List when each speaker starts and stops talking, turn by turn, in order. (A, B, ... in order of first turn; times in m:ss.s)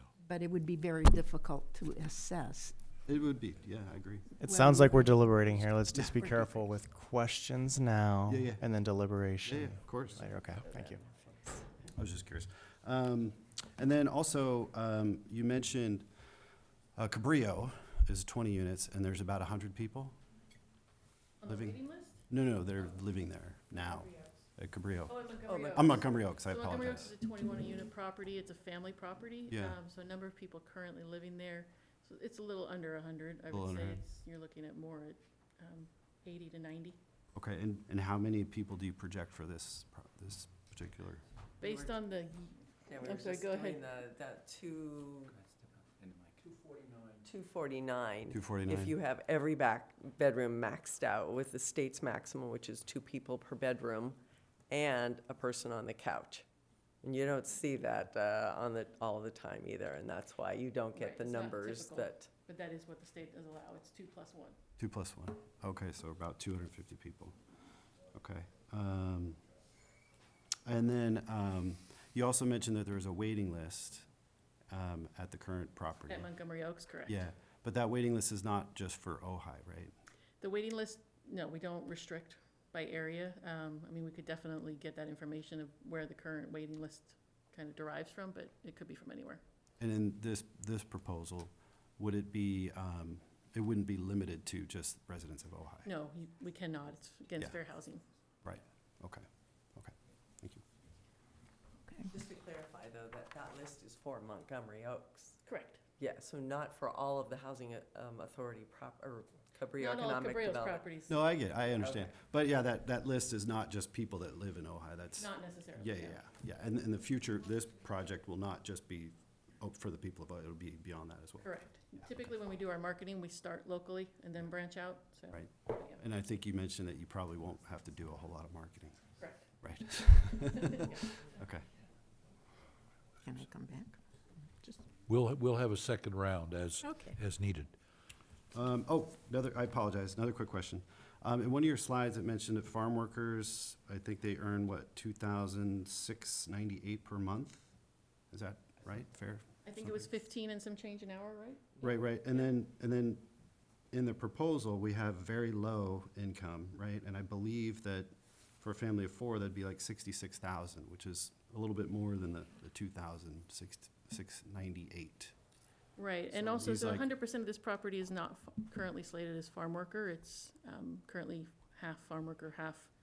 0:00.2-0:02.8 A
0:03.1-0:04.4 B
0:04.4-0:11.1 C
0:04.4-0:05.4 A
0:06.0-0:06.5 A
0:08.3-0:08.7 B
0:09.4-0:10.3 B
0:11.9-0:16.1 B
0:17.0-0:20.2 B
0:21.4-0:22.3 D
0:21.5-0:27.1 B
0:23.8-0:24.4 D
0:25.1-0:37.0 D
0:25.5-0:26.1 E
0:29.5-0:29.8 B
0:33.5-0:34.0 B
0:37.4-0:41.2 B
0:41.6-0:42.0 E
0:41.6-0:43.8 D
0:42.8-0:45.4 E
0:47.2-0:54.2 E
0:48.3-0:49.0 B
0:54.7-0:56.5 E
0:57.0-1:02.3 E
1:00.9-1:04.6 D
1:04.8-1:07.4 B
1:08.1-1:09.4 B
1:10.7-1:14.1 B
1:14.7-1:16.3 B
1:16.1-1:17.2 D
1:17.1-1:19.9 B
1:20.4-1:29.4 D
1:29.8-1:35.9 B
1:35.8-1:38.0 D
1:38.4-1:40.6 B
1:42.1-1:45.4 E
1:45.4-1:45.8 D
1:46.0-1:50.8 E
1:49.8-1:51.2 D
1:51.1-2:01.5 B
1:51.8-1:52.1 E
1:55.2-1:56.2 D
2:01.4-2:06.0 D
2:05.3-2:11.6 B
2:09.2-2:09.5 D
2:10.5-2:11.0 D
2:13.2-2:14.0 A
2:15.1-2:17.7 F
2:18.5-2:27.7 B
2:28.3-2:29.5 B
2:29.6-2:32.4 D
2:31.8-2:33.3 B
2:33.9-2:45.3 B
2:46.0-2:53.0 D
2:46.3-2:47.1 B